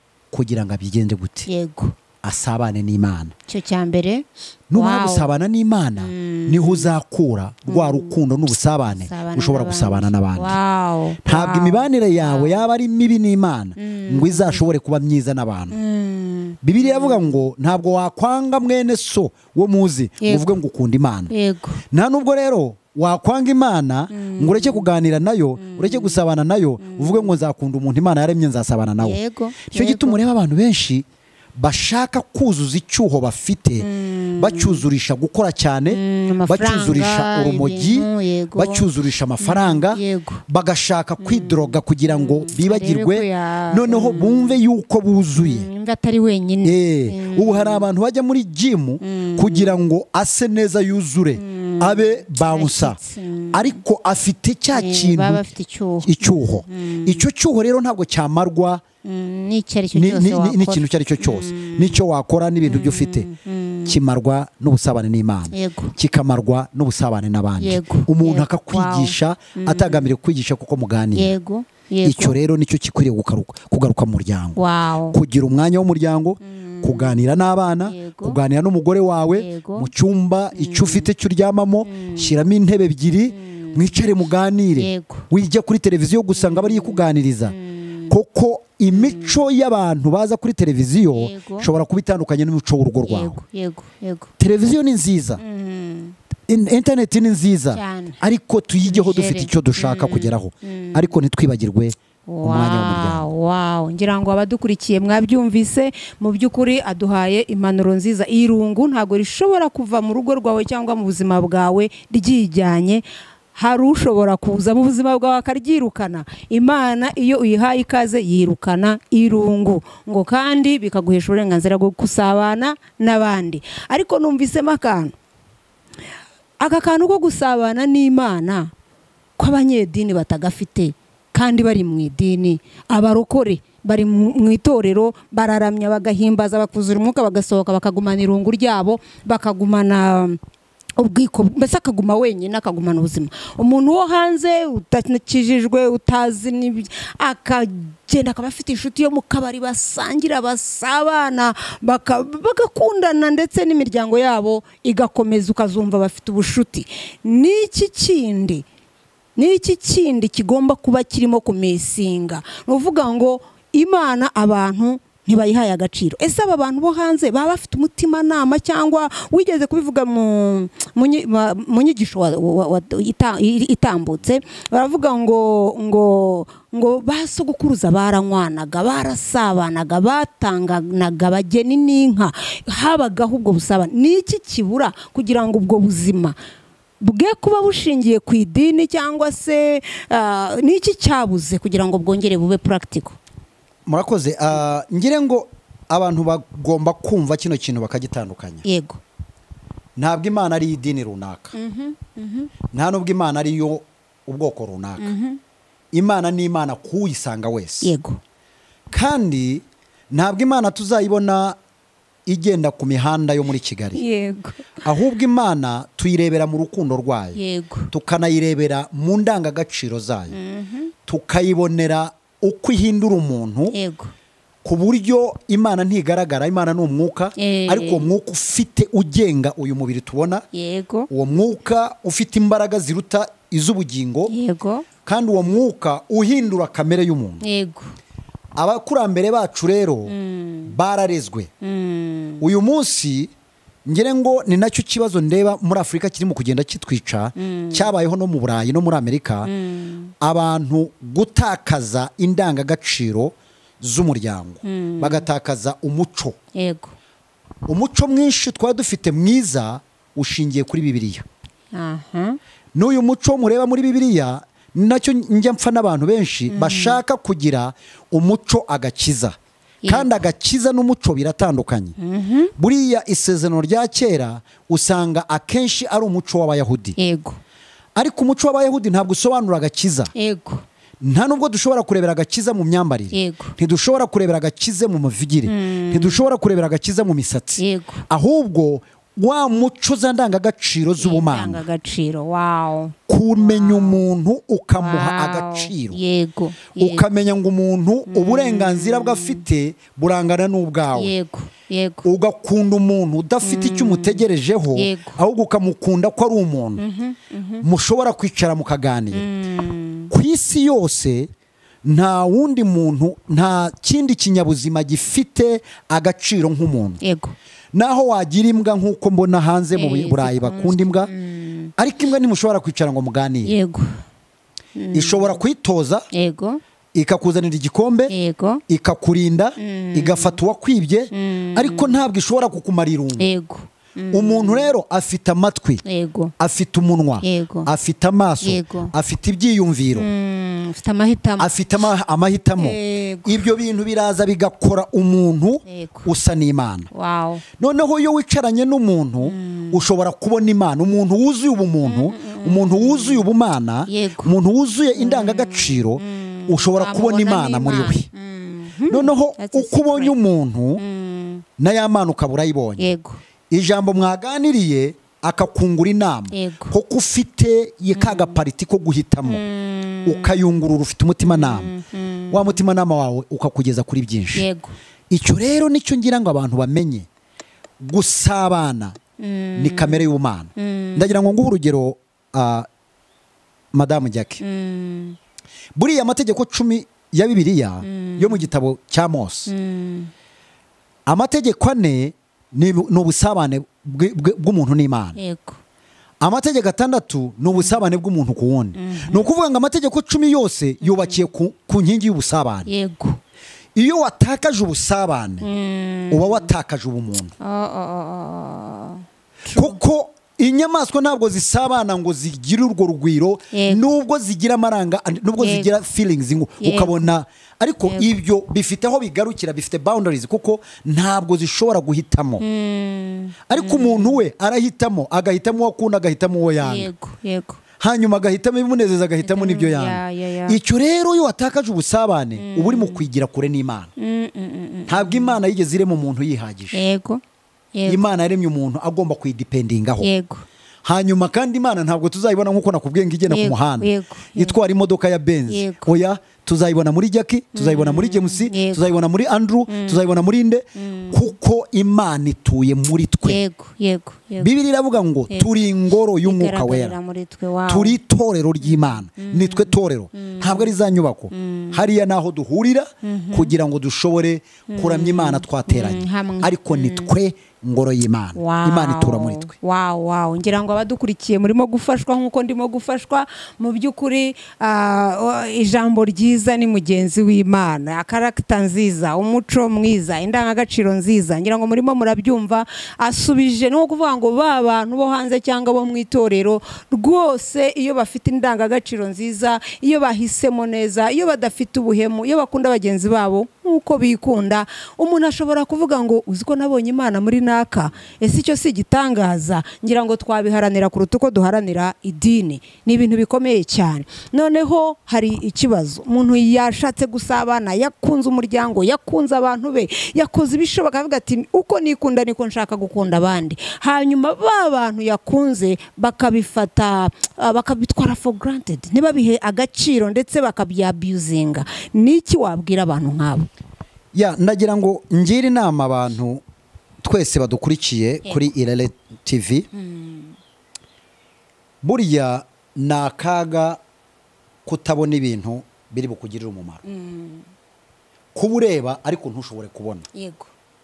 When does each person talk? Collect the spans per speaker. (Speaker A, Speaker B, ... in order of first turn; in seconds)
Speaker A: 0.3-1.5, 2.2-3.4, 4.7-10.6, 11.2-15.8, 16.6-21.3, 21.9-31.1, 31.6-45.7, 46.6-53.0, 53.5-55.4, 56.0-58.8, 59.9-63.3, 63.9-71.3, 72.0-87.5, 88.1-93.4, 94.4-95.4, 96.5-103.3, 193.9-198.7, 200.0-201.6, 202.7-205.1, 205.9-207.9, 208.9-211.6, 212.3-214.0, 214.8-217.4, 217.9-220.4, 221.1-223.8, 224.7-230.4, 231.1-234.3, 235.1-237.4, 238.6-240.1, 240.7-241.5, 242.4-243.3, 243.9-249.5, 250.2-256.4, 257.7-261.2, 262.8-269.4, 269.9-272.0, 272.6-277.0, 278.0-280.1, 281.0-291.6, 293.1-296.0, 296.8-301.1, 302.0-306.8, 307.6-309.2, 310.1-311.3, 311.9-317.0, 317.7-321.1, 321.8-323.6, 324.9-326.1, 326.9-328.1, 328.7-333.2, 334.1-335.8, 336.4-340.1, 341.4-346.9, 347.6-358.1, 358.9-360.8, 361.6-362.8, 363.5-369.4, 370.1-371.7, 372.3-374.5, 375.1-377.1, 377.8-379.0, 379.6-382.7, 383.7-384.4, 385.8-389.5, 391.1-395.2, 396.2-402.7, 403.8-405.5, 406.1-407.3, 409.5-422.4, 423.5-426.9, 427.8-433.9, 434.9-436.8, 437.9-440.1, 440.9-453.4, 454.4-457.0, 457.7-469.5, 524.1-526.4, 527.0-529.7, 531.8-533.8, 534.7-536.8, 538.4-540.1
Speaker B: 1.5-2.0, 3.5-5.3, 6.0-6.9, 7.7-8.2, 8.9-12.7, 13.8-14.7, 15.7-17.4, 20.2-20.5, 21.3-21.8, 24.1-24.9, 25.6-26.2, 26.8-27.4, 29.0-30.2, 33.8-34.9, 35.9-38.9, 39.4-40.4, 41.2-44.6, 45.4-47.9, 49.0-49.8, 51.4-53.8, 54.7-57.3, 59.0-62.0, 62.6-64.0, 65.5-66.0, 67.6-70.1, 71.1-72.4, 74.6-75.2, 76.4-77.2, 77.8-78.4, 79.3-79.9, 80.5-81.1, 81.8-82.4, 83.3-84.1, 84.8-85.3, 86.3-88.2, 88.9-89.4, 91.1-91.7, 93.0-94.3, 95.4-96.2, 97.7-98.2, 98.8-101.1, 102.3-113.0, 113.5-125.1, 126.6-128.7, 129.4-140.4, 141.0-158.7, 159.4-186.4, 187.0-193.2, 198.7-199.0, 201.5-202.5, 205.0-205.4, 207.8-208.2, 213.9-214.8, 217.3-217.9, 220.3-220.9, 223.7-224.1, 227.4-228.1, 230.5-231.1, 234.3-234.9, 237.4-238.0, 240.1-240.8, 241.6-242.5, 247.4-247.9, 249.4-250.1, 254.6-255.3, 256.5-256.9, 261.7-262.4, 266.5-267.0, 269.8-270.3, 272.0-272.5, 277.0-277.4, 280.1-280.6, 283.1-283.6, 285.5-286.2, 287.6-288.0, 291.0-294.0, 294.8-297.1, 298.1-299.4, 300.9-302.1, 303.4-305.2, 306.8-307.6, 309.1-310.1, 317.0-317.4, 319.7-321.7, 323.4-324.0, 324.8-325.4, 326.1-326.6, 328.1-328.6, 329.6-330.4, 331.1-332.0, 333.2-334.7, 335.8-336.3, 337.2-337.7, 338.4-338.9, 339.9-341.5, 342.6-343.5, 345.6-346.1, 346.9-347.4, 349.2-349.8, 351.8-353.3, 353.9-354.3, 354.9-360.2, 360.8-361.4, 362.8-363.2, 366.3-366.8, 367.9-368.4, 369.2-370.4, 371.2-372.6, 374.4-374.8, 379.2-381.1, 384.4-385.2, 387.8-388.5, 389.5-390.1, 395.2-395.6, 397.5-397.8, 398.8-399.3, 400.8-401.2, 402.7-403.2, 405.4-406.5, 407.4-409.8, 413.5-413.8, 415.4-415.8, 416.6-417.1, 417.8-418.1, 422.4-424.2, 426.6-427.6, 429.2-430.6, 432.4-433.1, 434.0-435.4, 436.7-437.2, 437.7-438.0, 440.0-440.5, 443.3-444.6, 445.5-446.0, 447.5-448.9, 449.7-450.1, 450.8-451.4, 453.2-454.5, 456.2-458.0, 458.6-460.8, 461.3-461.9, 463.0-463.6, 464.7-467.1, 468.4-523.5, 529.7-530.4, 536.8-537.5, 540.1-540.5